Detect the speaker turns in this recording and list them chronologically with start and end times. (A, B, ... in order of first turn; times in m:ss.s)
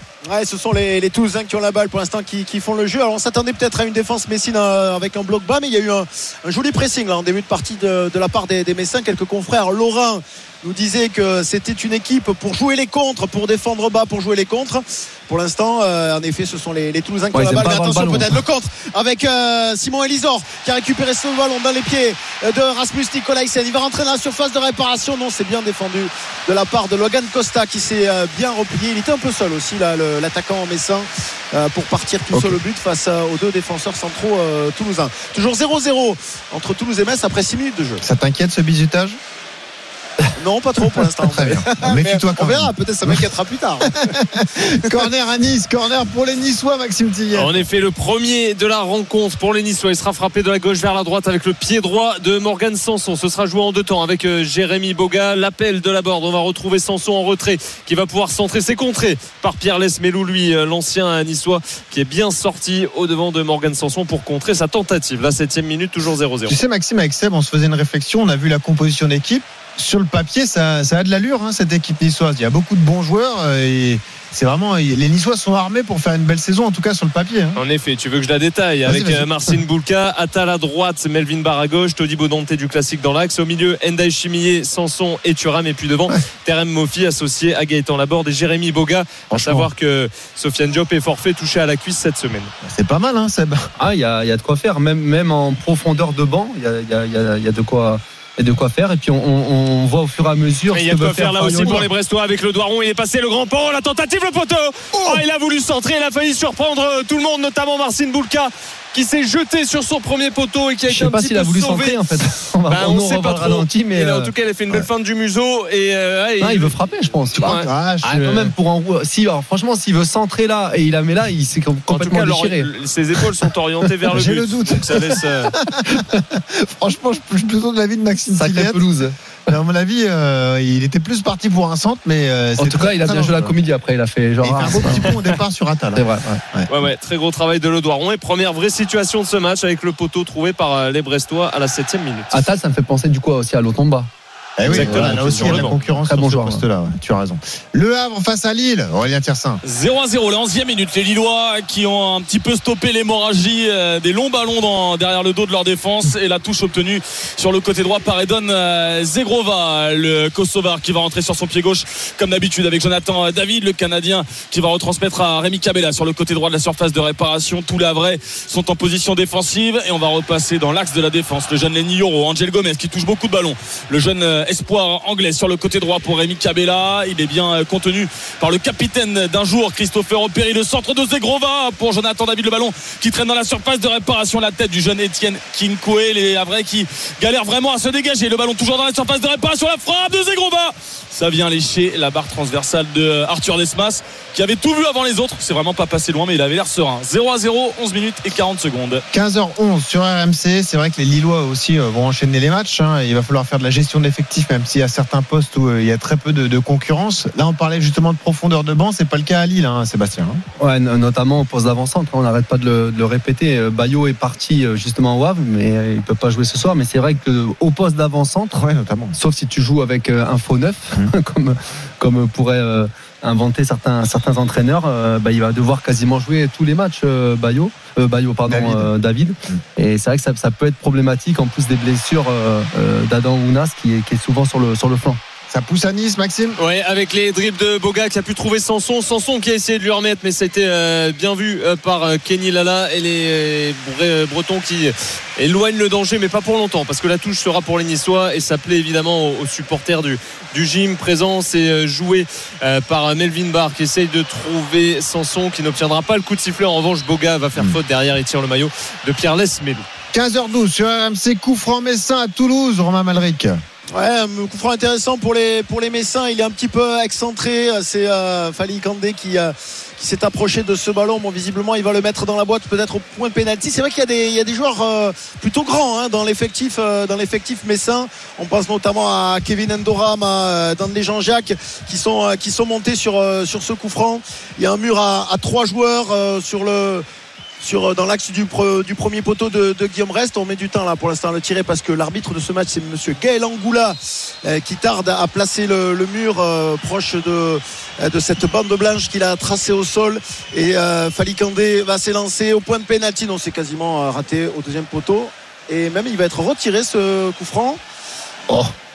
0:00.3-0:38.0 A
0:17.3-0:18.4 B
0:32.3-0:32.6 C
0:38.0-0:39.2 C
0:40.4-0:43.9 A
0:41.2-0:43.3 C
0:44.0-0:47.5 C
0:47.3-1:06.6 D
1:06.5-1:17.6 C
1:17.6-1:32.5 D
1:18.8-1:19.3 C
1:29.3-1:29.7 C
1:32.6-1:33.6 C
1:33.8-1:41.9 B
1:40.7-1:52.0 D
1:50.9-1:54.3 B
1:52.7-1:56.7 D
1:56.4-2:02.7 B
1:57.4-1:58.5 C
1:57.4-1:57.7 D
2:01.9-2:05.5 D
2:04.1-2:08.8 C
2:08.3-2:09.1 B
2:09.5-2:13.5 C
2:12.6-2:15.2 B
2:14.4-2:16.7 C
2:15.9-2:16.4 B
2:16.7-2:22.4 D
2:22.3-2:24.1 B
2:24.6-2:29.6 C
2:24.6-2:26.6 B
2:24.6-2:25.8 D
2:29.6-3:19.0 E
3:19.1-3:30.4 C
3:30.6-3:38.6 B
3:38.5-3:39.2 C
3:39.1-3:55.2 B
3:48.5-3:48.9 C
3:55.5-3:56.6 C
3:56.6-4:19.8 D
4:20.1-4:23.6 C
4:23.9-4:47.0 A
4:47.6-5:07.8 A